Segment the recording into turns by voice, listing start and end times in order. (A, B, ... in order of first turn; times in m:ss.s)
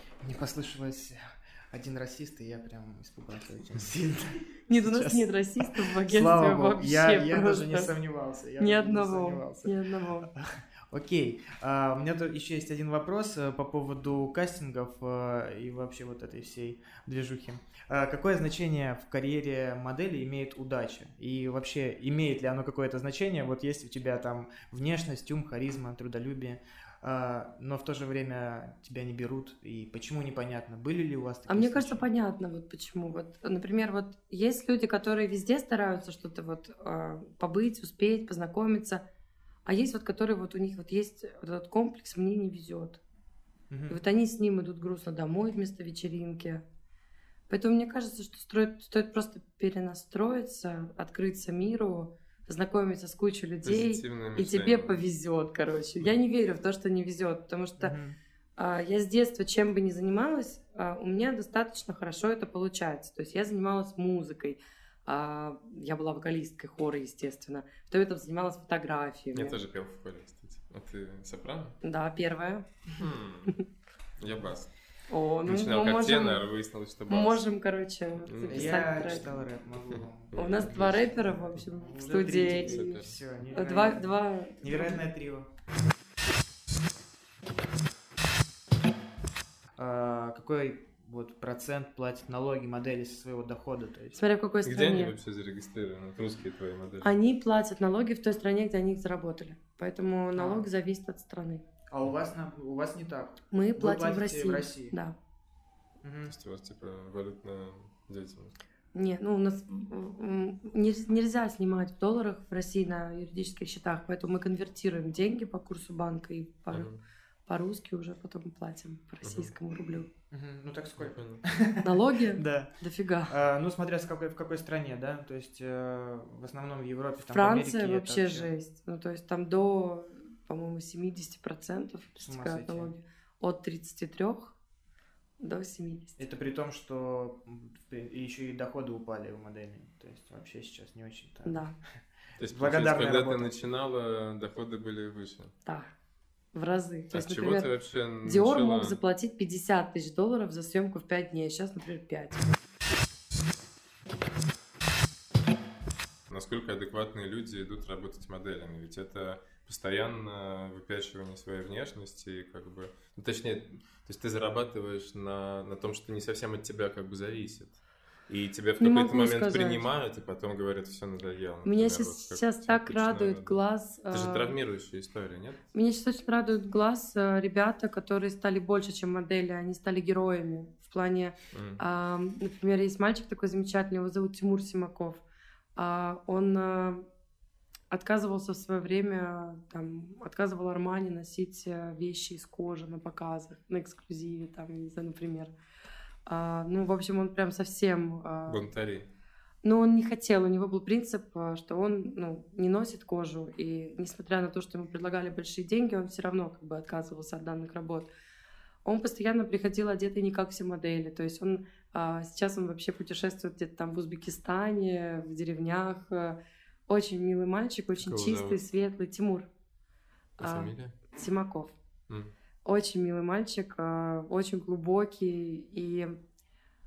0:00.2-0:09.8 A
0:04.7-0:07.9 B
0:08.6-0:10.3 B
0:10.3-0:32.0 A
0:31.5-0:39.0 B
0:39.6-0:43.0 B
0:43.7-0:44.0 A
0:43.9-0:46.6 B
0:47.5-0:58.0 B
0:53.6-0:55.0 C
0:57.8-0:58.2 A
0:58.6-1:09.6 B
1:09.3-1:11.8 C
1:11.8-1:13.6 B
1:13.0-1:13.5 C
1:14.2-1:14.7 C
1:15.1-1:16.4 B
1:15.4-1:17.4 C
1:17.1-1:19.3 B
1:18.2-1:18.7 C
1:18.5-1:25.5 A
1:20.0-1:21.1 C
1:20.3-1:23.0 B
1:22.5-1:23.5 C
1:23.5-1:25.0 B
1:29.8-1:34.2 A
1:34.1-1:35.1 B
1:34.6-1:37.2 C
1:37.0-1:41.6 B
1:40.4-1:40.7 A
1:41.9-1:44.9 A
1:43.5-1:45.2 B
1:46.0-1:46.4 A
1:46.3-1:48.6 C
1:48.9-1:56.9 B
1:56.7-1:57.0 C
1:57.5-2:00.1 B
1:59.2-1:59.5 C
2:00.3-2:02.8 A
2:01.0-2:01.4 C
2:01.8-2:03.3 B
2:03.3-2:08.5 A
2:07.3-2:14.5 B
2:12.2-2:12.9 A
2:15.4-2:16.2 B
2:16.2-2:21.6 A
2:21.4-2:21.7 B
2:22.4-2:25.5 C
2:22.5-2:23.5 A
2:25.6-2:25.9 B
2:26.5-2:27.7 B
2:27.1-2:29.0 C
2:28.2-2:32.5 B
2:36.3-2:53.6 C
2:48.8-2:49.8 B
2:51.6-2:54.5 B
2:54.1-2:55.6 C
2:55.7-3:05.2 B
3:01.5-3:01.8 C
3:05.8-3:07.0 B
3:07.9-3:15.5 B
3:16.2-3:18.6 B
3:18.5-3:19.1 C
3:19.6-3:28.1 B
3:28.8-3:39.5 B
3:38.0-3:38.6 C
3:40.4-3:40.9 C
3:40.4-3:41.8 B
3:42.6-3:46.2 B